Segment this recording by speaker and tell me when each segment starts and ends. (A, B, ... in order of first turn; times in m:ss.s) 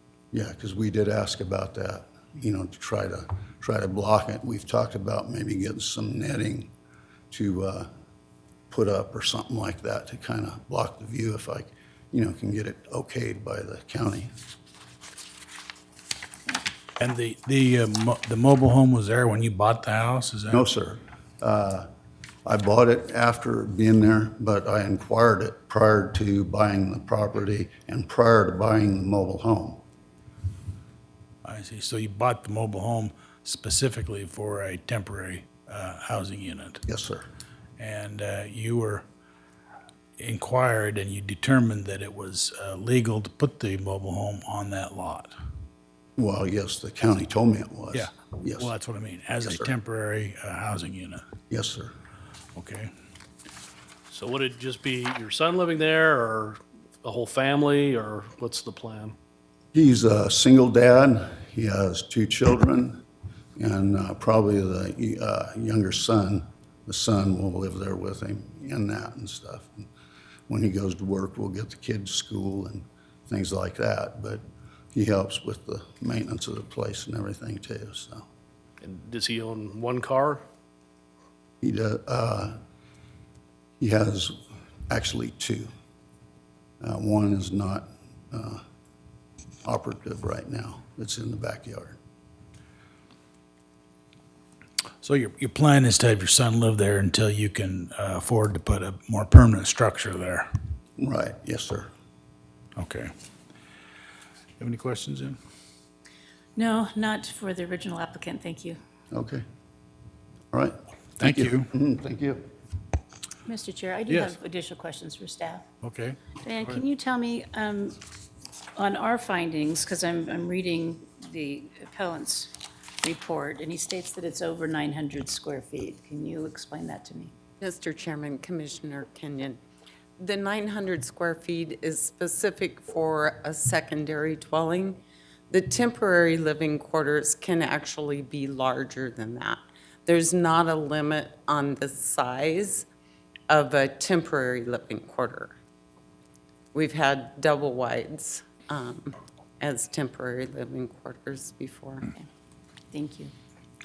0:00.3-0:06.7 A
0:07.3-0:07.9 A
0:08.7-0:14.3 A
0:17.0-0:20.6 B
0:20.5-0:21.9 A
0:22.4-0:29.8 A
0:31.4-0:36.8 B
0:36.8-0:37.2 A
0:37.8-0:39.0 B
0:40.2-0:45.3 B
0:46.2-0:48.7 A
0:47.9-0:51.2 B
0:49.4-0:49.7 A
0:51.5-0:51.9 A
0:52.6-0:52.9 B
0:54.1-0:59.2 C
0:59.7-1:03.0 A
1:03.6-1:09.9 A
1:10.5-1:14.4 A
1:14.9-1:18.3 A
1:18.8-1:20.4 C
1:21.6-1:22.6 A
1:23.8-1:24.4 A
1:24.9-1:25.7 A
1:26.8-1:28.6 A
1:29.6-1:32.0 A
1:35.0-1:40.5 B
1:41.0-1:41.9 A
1:42.8-1:43.1 B
1:44.6-1:45.4 B
1:46.6-1:48.8 D
1:49.1-1:49.4 A
1:50.5-1:52.5 A
1:51.2-1:51.7 B
1:53.4-1:55.6 D
1:54.1-1:54.3 B
1:55.8-1:56.8 B
1:56.4-1:58.0 D
1:58.8-2:02.5 D
2:03.0-2:07.3 D
2:07.6-2:09.6 E
2:10.2-2:22.8 E
2:23.5-2:25.5 E
2:26.7-2:32.1 E
2:32.9-2:33.3 D